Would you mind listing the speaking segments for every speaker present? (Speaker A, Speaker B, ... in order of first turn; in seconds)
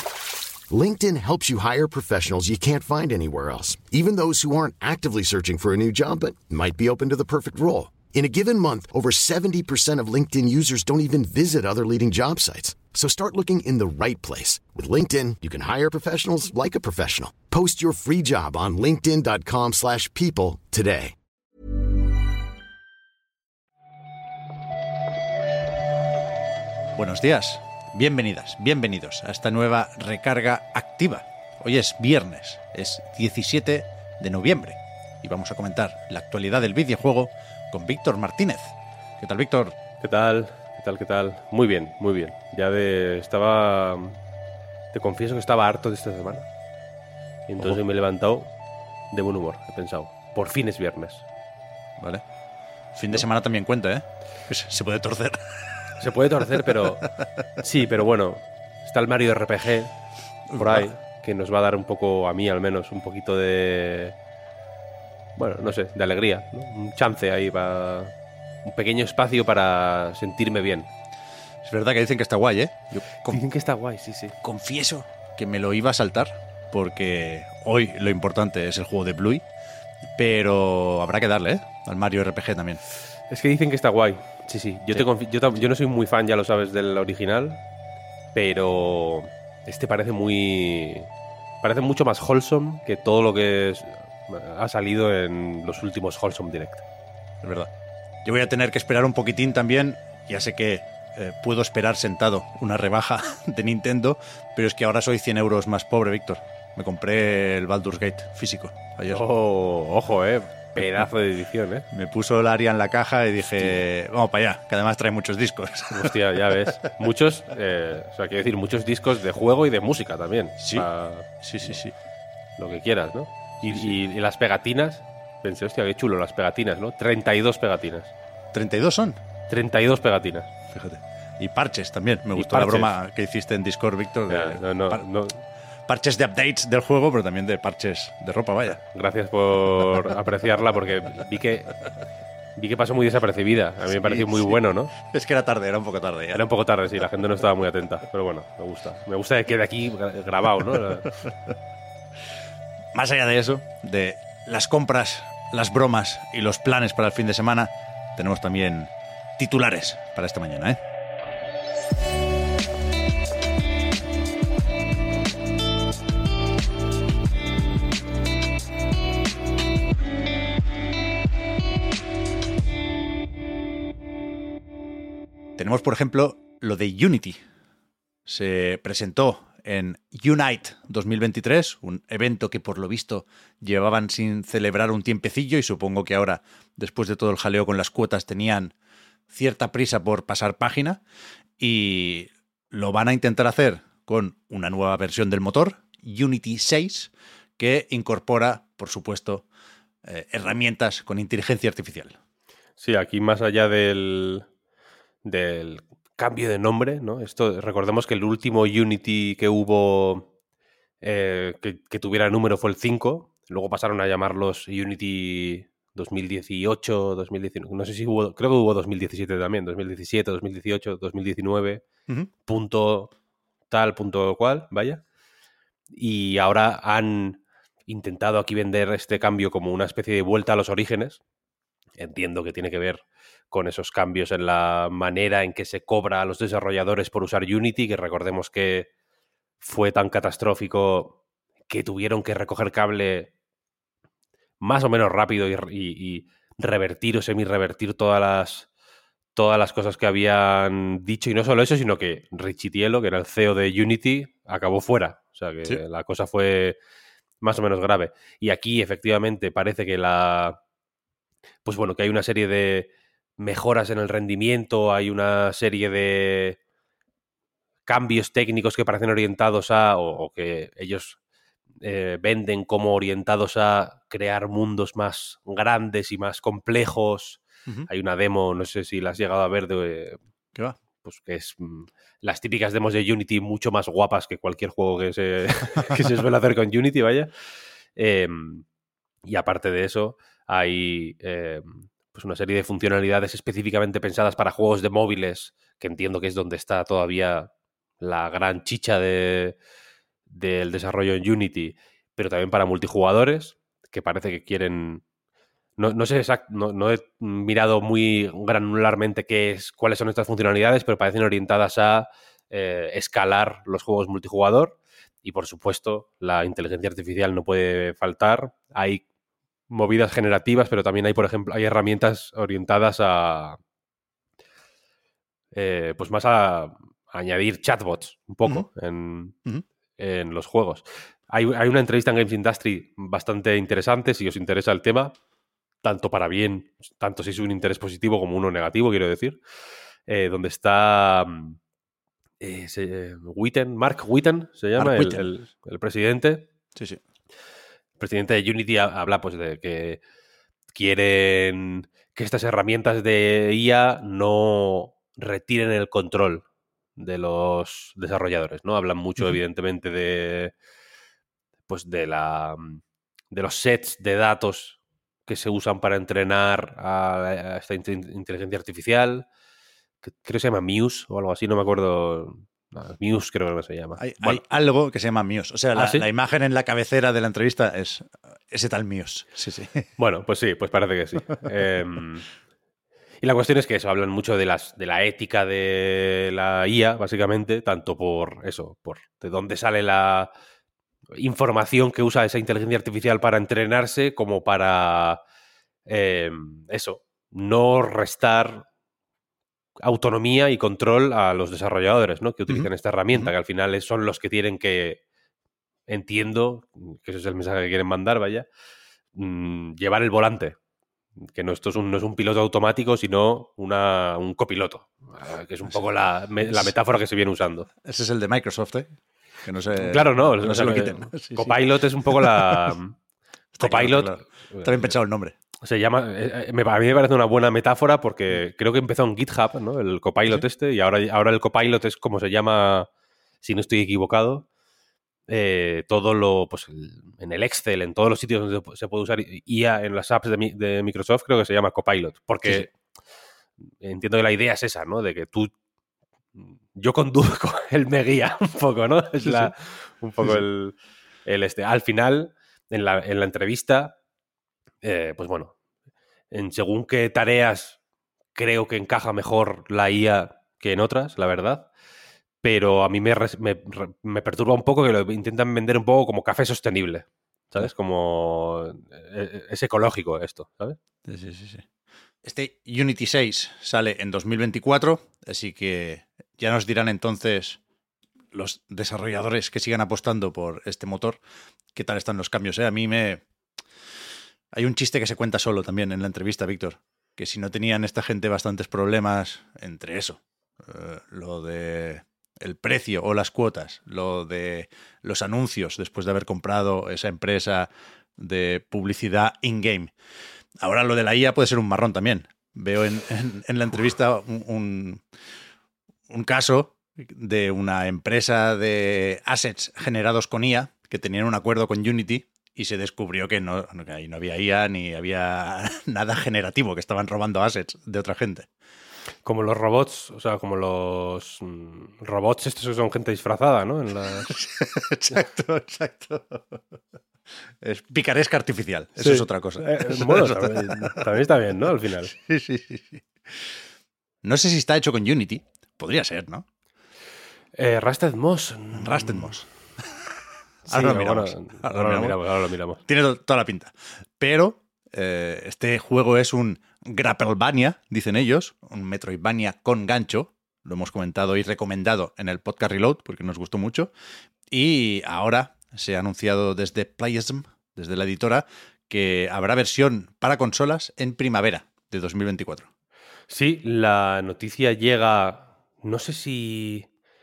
Speaker A: 0.7-21.1
Speaker B: 26.9-39.8, 52.0-52.2, 52.9-56.9, 60.5-61.0, 71.6-73.4, 74.4-79.5, 80.2-82.8, 97.4-97.7, 98.2-109.2, 110.8-111.0, 111.9-116.7, 120.6-120.9, 121.4-121.9, 123.6-123.9, 128.5-129.2, 130.7-135.1, 135.8-138.8, 143.9-146.4, 152.9-160.8, 175.6-177.4, 178.2-188.7, 189.3-191.0, 191.6-199.5, 200.1-202.2, 344.8-345.2, 346.7-347.0, 374.0-379.9, 402.5-403.3, 416.5-416.7, 417.8-418.9, 419.4-422.7, 423.5-425.3, 449.2-449.5, 471.1-471.6, 472.2-477.6, 478.3-481.2, 481.7-483.2, 484.5-499.9, 500.6-505.0, 506.1-518.5, 524.2-526.6, 527.6-531.1, 532.1-533.4, 534.2-536.5, 538.7-539.5, 540.7-542.2, 542.9-553.9, 554.5-562.7
Speaker C: 40.0-44.2, 44.9-46.5, 47.5-48.5, 49.1-51.2, 56.0-57.1, 57.6-60.0, 60.5-64.2, 65.4-68.1, 68.7-70.9, 73.3-74.4, 83.3-87.6, 88.3-91.1, 91.6-96.8, 109.1-111.9, 113.5-113.8, 115.9-121.8, 122.6-128.1, 129.5-130.5, 132.3-133.0, 134.3-135.4, 138.9-141.8, 142.6-144.9, 146.3-151.2, 202.8-204.5, 205.2-210.3, 211.0-221.8, 222.4-223.1, 223.7-225.0, 225.9-231.2, 232.0-238.9, 239.6-241.2, 241.7-243.3, 244.6-248.7, 249.3-256.8, 257.4-260.6, 261.6-266.6, 267.9-271.2, 271.8-280.2, 281.0-287.3, 287.9-288.6, 289.2-297.5, 298.0-299.6, 300.3-305.0, 305.8-319.0, 319.7-323.6, 325.5-329.3, 330.0-335.1, 335.8-339.4, 340.1-341.6, 342.4-346.5, 348.0-350.0, 350.7-356.4, 356.9-360.5, 361.7-369.2, 370.0-374.4, 375.7-376.1, 380.0-382.3, 383.2-390.3, 391.1-395.2, 395.9-398.7, 399.8-405.0, 405.9-408.5, 409.1-410.6, 411.3-417.7, 419.8-423.0, 423.6-424.9, 425.6-432.9, 433.4-434.4, 435.3-442.7, 443.8-445.5, 446.4-453.9, 454.8-455.5, 456.3-457.8, 458.3-461.7, 462.4-470.8, 519.2-524.3, 529.0-532.1, 537.6-539.4, 540.7-542.8, 563.3-566.9